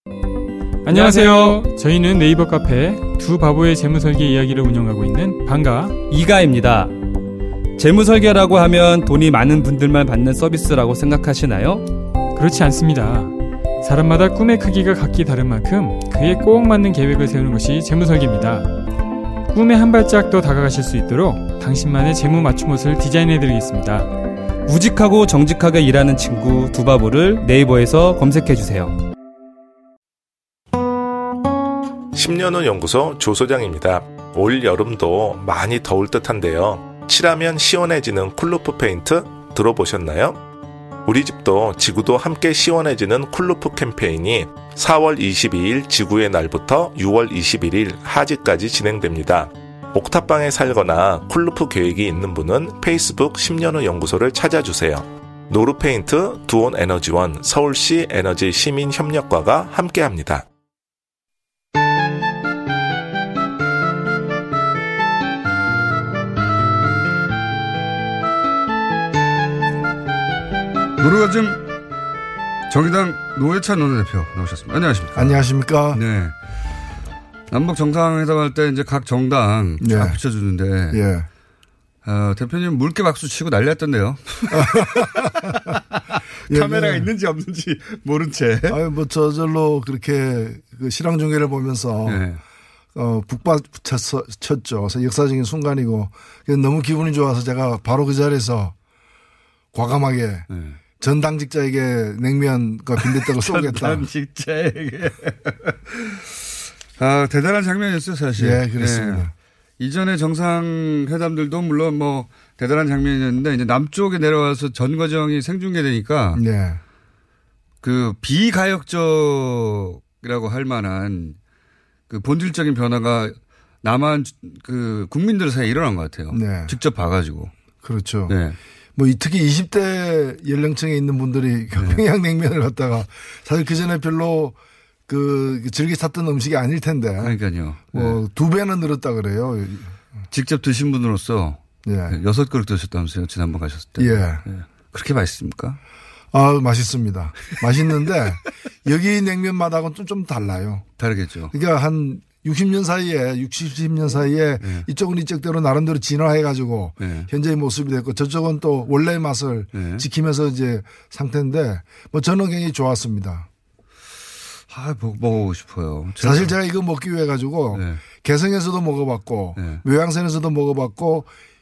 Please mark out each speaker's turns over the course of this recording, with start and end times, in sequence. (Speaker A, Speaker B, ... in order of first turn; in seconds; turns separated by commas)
Speaker A: 0.8-6.0, Speaker B: 0.9-1.6, Speaker B: 6.1-6.9, Speaker B: 7.8-11.9, Speaker A: 12.3-18.7, Speaker A: 19.5-24.1, Speaker B: 24.6-28.9, Speaker C: 32.1-40.4, Speaker C: 41.0-60.4, Speaker D: 71.0-71.7, Speaker D: 72.7-76.3, Speaker E: 75.2-76.0, Speaker D: 77.5-81.0, Speaker E: 79.8-80.2, Speaker E: 80.9-81.3, Speaker D: 82.0-88.8, Speaker E: 84.5-85.8, Speaker E: 86.5-87.1, Speaker E: 88.7-92.2, Speaker D: 92.0-92.4, Speaker E: 92.9-98.7, Speaker E: 99.7-100.5, Speaker D: 100.5-100.8, Speaker E: 101.0-104.1, Speaker D: 103.0-109.3, Speaker E: 108.4-109.3, Speaker D: 109.8-116.4, Speaker E: 116.3-116.8, Speaker D: 117.8-121.4, Speaker D: 122.1-127.5, Speaker E: 126.3-126.7, Speaker E: 127.8-128.3, Speaker D: 128.3-128.6, Speaker E: 128.9-134.6, Speaker D: 131.8-132.0, Speaker E: 135.1-137.3, Speaker D: 137.2-138.2, Speaker E: 137.9-139.9, Speaker D: 140.3-145.8, Speaker E: 141.8-142.2, Speaker E: 144.0-144.4, Speaker E: 146.3-150.8, Speaker D: 151.0-151.5, Speaker E: 151.5-163.5, Speaker D: 154.6-154.9, Speaker D: 157.0-157.3, Speaker D: 159.7-160.0, Speaker D: 164.7-166.5, Speaker E: 166.2-171.3, Speaker D: 167.7-168.0, Speaker D: 169.6-169.8